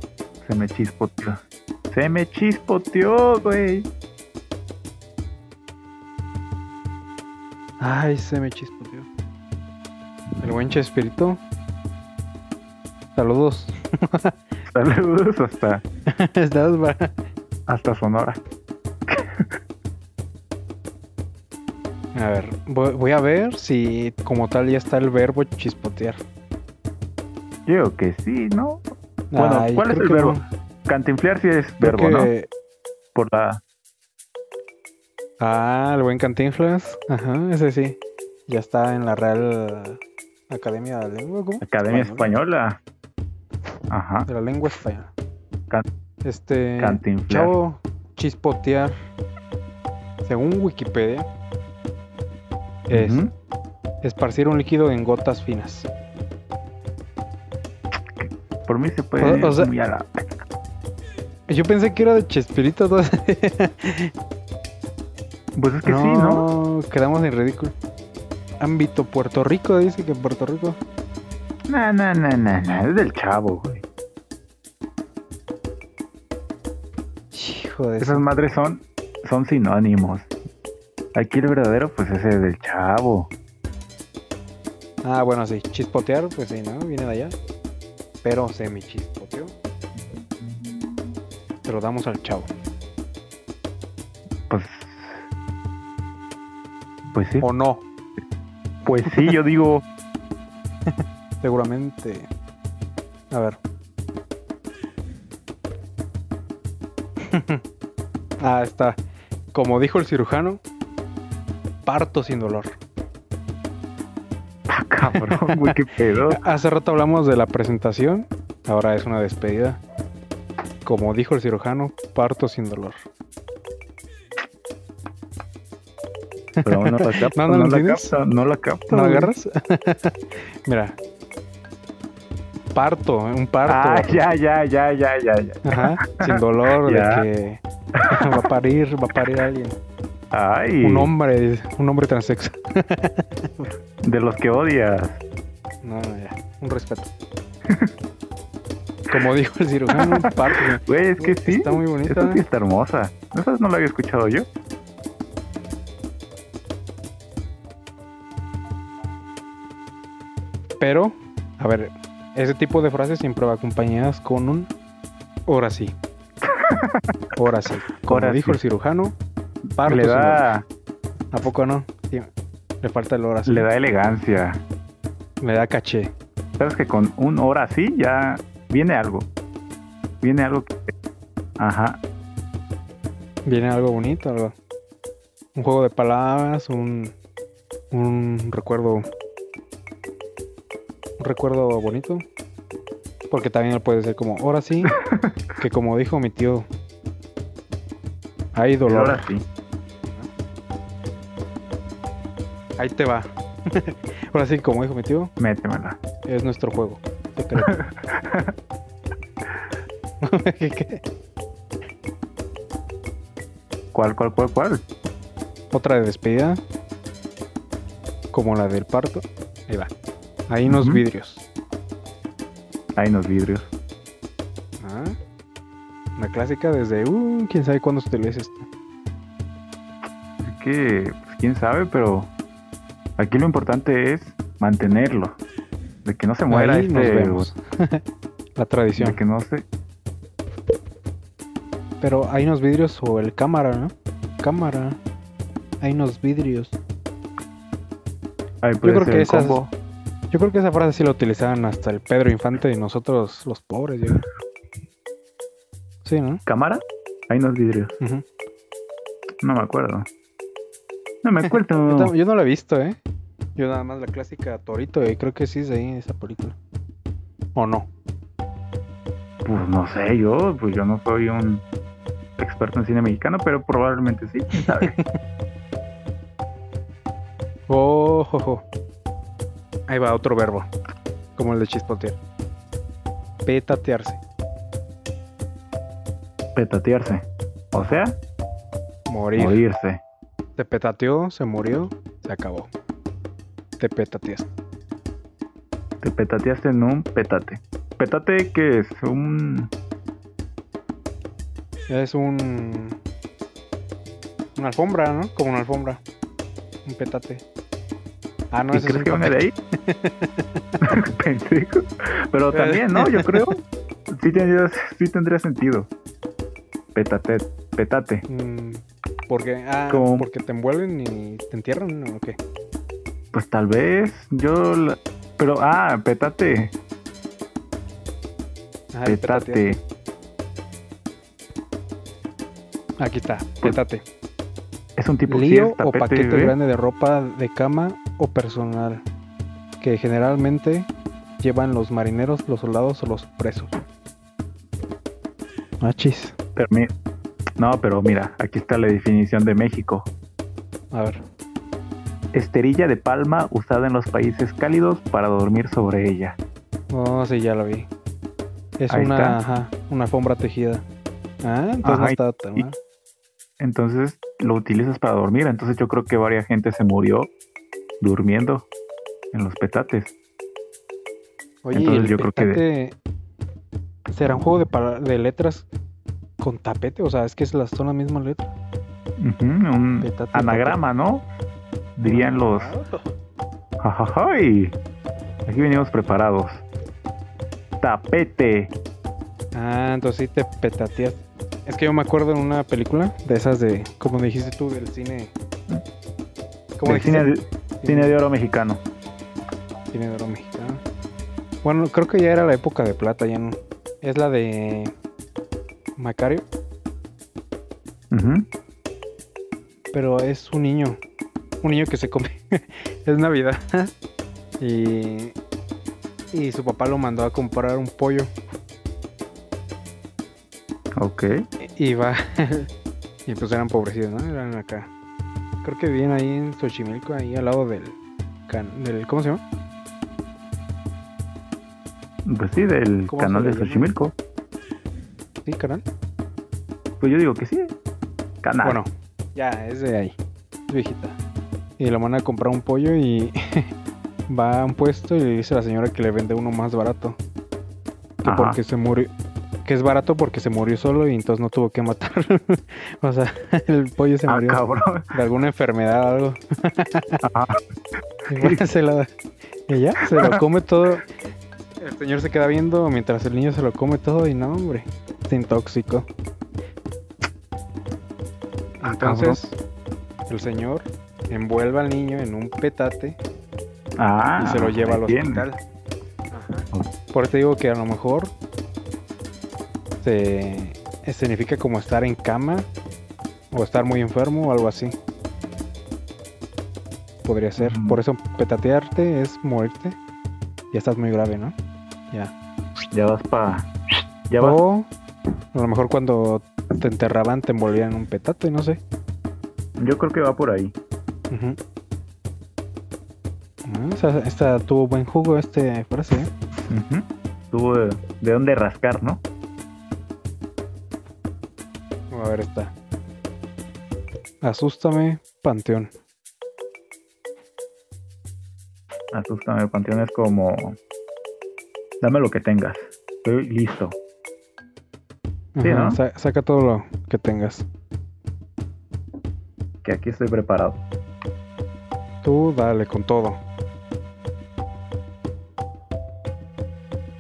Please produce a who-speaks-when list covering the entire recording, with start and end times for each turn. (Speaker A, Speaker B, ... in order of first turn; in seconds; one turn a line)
Speaker A: 0.4-3.9
Speaker B: 7.8-9.1
Speaker B: 10.4-11.4
Speaker B: 13.2-14.4
Speaker A: 14.7-15.8
Speaker B: 16.1-17.1
Speaker A: 17.7-18.4
Speaker B: 22.1-26.2
Speaker A: 27.7-28.8
Speaker B: 29.3-30.4
Speaker A: 29.4-32.3
Speaker B: 31.8-32.5
Speaker A: 33.1-33.6
Speaker B: 35.4-42.3
Speaker A: 41.6-42.8
Speaker A: 43.9-44.3
Speaker B: 44.3-45.1
Speaker B: 46.2-49.0
Speaker A: 46.8-47.5
Speaker B: 50.2-51.3
Speaker B: 52.9-53.2
Speaker A: 52.9-53.3
Speaker B: 54.0-55.9
Speaker A: 58.2-60.4
Speaker B: 59.2-59.7
Speaker B: 61.5-64.1
Speaker A: 65.5-66.5
Speaker B: 65.8-67.8
Speaker B: 68.6-70.8
Speaker A: 71.7-73.8
Speaker B: 77.3-78.2
Speaker A: 78.0-80.3
Speaker A: 81.2-83.3
Speaker B: 85.0-87.4
Speaker B: 88.2-89.5
Speaker B: 91.7-92.5
Speaker A: 94.5-95.2
Speaker A: 97.1-97.5
Speaker B: 97.4-97.9
Speaker A: 98.8-99.8
Speaker B: 100.9-102.3
Speaker B: 103.3-103.6
Speaker B: 107.2-107.6
Speaker B: 108.4-109.0
Speaker B: 109.5-110.6
Speaker B: 111.8-112.8
Speaker A: 114.7-116.4
Speaker B: 115.0-115.8
Speaker B: 116.3-119.8
Speaker B: 120.8-123.0
Speaker B: 126.6-128.2
Speaker A: 126.6-129.3
Speaker B: 128.9-131.0
Speaker B: 132.7-134.2
Speaker A: 133.7-137.3
Speaker B: 135.7-139.8
Speaker A: 137.9-138.5
Speaker A: 140.3-141.1
Speaker B: 140.8-143.7
Speaker A: 144.0-145.2
Speaker B: 145.8-147.1
Speaker B: 149.1-152.4
Speaker A: 149.9-154.5
Speaker B: 160.8-164.7
Speaker B: 165.5-166.0
Speaker A: 166.4-167.1
Speaker B: 167.4-169.2
Speaker A: 168.0-168.6
Speaker B: 169.8-170.4
Speaker A: 169.8-170.7
Speaker B: 171.3-172.3
Speaker B: 172.8-173.7
Speaker A: 173.4-174.6
Speaker B: 175.4-176.1
Speaker A: 176.6-179.3
Speaker A: 180.2-180.9
Speaker A: 181.6-182.0
Speaker B: 183.4-184.6
Speaker B: 185.6-187.2
Speaker B: 187.9-189.1
Speaker B: 191.2-192.3
Speaker B: 193.3-195.0
Speaker A: 195.0-195.3
Speaker B: 195.6-196.7
Speaker B: 198.5-199.3
Speaker A: 198.9-199.5
Speaker B: 200.0-200.3
Speaker B: 202.8-205.3
Speaker A: 205.4-206.0
Speaker B: 206.2-207.8
Speaker A: 207.6-208.5
Speaker B: 210.2-211.0
Speaker A: 213.9-214.8
Speaker B: 215.7-216.6
Speaker B: 218.3-219.9
Speaker B: 220.5-221.4
Speaker A: 220.7-221.0
Speaker A: 223.0-223.7
Speaker B: 224.8-225.2
Speaker B: 226.2-228.7
Speaker A: 230.4-232.3
Speaker A: 233.2-235.4
Speaker A: 236.1-237.5
Speaker B: 236.5-238.0
Speaker B: 238.6-239.2
Speaker A: 239.0-239.7
Speaker B: 242.0-245.0
Speaker B: 245.8-246.8
Speaker A: 248.6-249.7
Speaker B: 248.8-249.6
Speaker B: 250.3-254.2
Speaker B: 256.1-256.4
Speaker A: 256.5-257.9
Speaker B: 258.0-258.2
Speaker A: 259.4-260.1
Speaker A: 261.2-262.1
Speaker B: 261.4-263.0
Speaker B: 263.6-266.6
Speaker B: 267.6-267.9
Speaker A: 269.4-271.6
Speaker A: 272.4-275.0
Speaker B: 274.6-275.1
Speaker B: 277.7-278.6
Speaker B: 279.9-280.7
Speaker B: 281.4-282.2
Speaker B: 283.4-284.2
Speaker A: 286.6-288.2
Speaker B: 289.1-289.6
Speaker A: 289.4-290.0
Speaker B: 290.6-292.7
Speaker B: 293.8-294.5
Speaker A: 296.0-299.7
Speaker B: 301.9-303.0
Speaker B: 304.6-306.0
Speaker B: 306.9-307.4
Speaker B: 308.5-310.7
Speaker A: 308.7-309.5
Speaker A: 310.8-315.9
Speaker B: 312.5-313.5
Speaker A: 316.9-318.3
Speaker B: 318.3-322.4
Speaker A: 319.9-320.3
Speaker A: 323.3-326.7
Speaker B: 328.9-329.8
Speaker A: 329.1-329.8
Speaker B: 333.0-334.0
Speaker A: 335.0-336.6
Speaker B: 335.3-339.1
Speaker B: 339.8-340.9
Speaker B: 341.4-343.8
Speaker B: 345.8-346.4
Speaker A: 346.6-346.9
Speaker A: 347.6-350.1
Speaker B: 350.9-351.2
Speaker A: 352.3-356.4
Speaker B: 356.9-357.9
Speaker B: 358.8-360.9
Speaker A: 358.9-359.4
Speaker B: 361.4-362.8
Speaker A: 361.8-362.7
Speaker A: 363.6-367.3
Speaker A: 368.0-368.7
Speaker A: 369.3-370.1
Speaker B: 371.6-373.0
Speaker A: 371.7-372.6
Speaker B: 374.1-375.7
Speaker B: 376.4-378.5
Speaker A: 379.2-381.2
Speaker B: 380.0-380.8
Speaker A: 382.0-382.8
Speaker B: 382.0-383.1
Speaker A: 383.8-384.8
Speaker A: 385.4-386.6
Speaker A: 387.8-388.7
Speaker B: 389.5-395.3
Speaker B: 396.8-397.3
Speaker A: 396.9-398.8
Speaker B: 397.8-398.2
Speaker B: 399.9-400.8
Speaker B: 401.6-404.9
Speaker B: 406.0-406.5
Speaker A: 408.1-408.5
Speaker B: 409.9-411.0
Speaker B: 411.6-413.9
Speaker B: 414.6-415.4
Speaker B: 416.3-418.3
Speaker A: 421.0-421.5
Speaker B: 421.6-422.7
Speaker B: 423.3-424.9
Speaker B: 425.6-429.4
Speaker A: 432.3-434.1
Speaker B: 433.1-433.9
Speaker B: 435.4-435.9
Speaker A: 437.0-437.7
Speaker A: 438.4-438.8
Speaker B: 438.6-440.2
Speaker B: 440.7-441.2
Speaker B: 441.8-443.7
Speaker B: 444.3-447.2
Speaker B: 448.2-449.1
Speaker A: 448.2-448.6
Speaker B: 449.6-457.2
Speaker A: 454.3-455.1
Speaker A: 457.2-457.6
Speaker A: 458.3-458.6
Speaker B: 458.3-459.1
Speaker B: 459.7-461.1
Speaker A: 460.1-460.4
Speaker B: 461.8-466.1
Speaker B: 468.8-469.6
Speaker A: 468.9-469.4
Speaker B: 470.3-473.2
Speaker A: 474.0-475.5
Speaker B: 474.4-475.6
Speaker B: 476.3-478.3
Speaker B: 480.0-482.7
Speaker B: 483.5-485.0
Speaker B: 487.2-490.0
Speaker A: 487.6-488.0
Speaker B: 490.7-491.6
Speaker A: 492.9-493.7
Speaker A: 494.3-494.6
Speaker B: 494.4-494.9
Speaker B: 495.5-498.8
Speaker A: 499.8-500.8
Speaker B: 501.3-501.6
Speaker B: 503.6-506.3
Speaker A: 506.7-509.2
Speaker B: 512.1-512.7
Speaker B: 514.4-515.9
Speaker A: 519.1-520.8
Speaker A: 522.0-524.0
Speaker B: 525.6-527.7
Speaker A: 525.6-526.0
Speaker A: 529.8-530.8
Speaker B: 532.2-533.4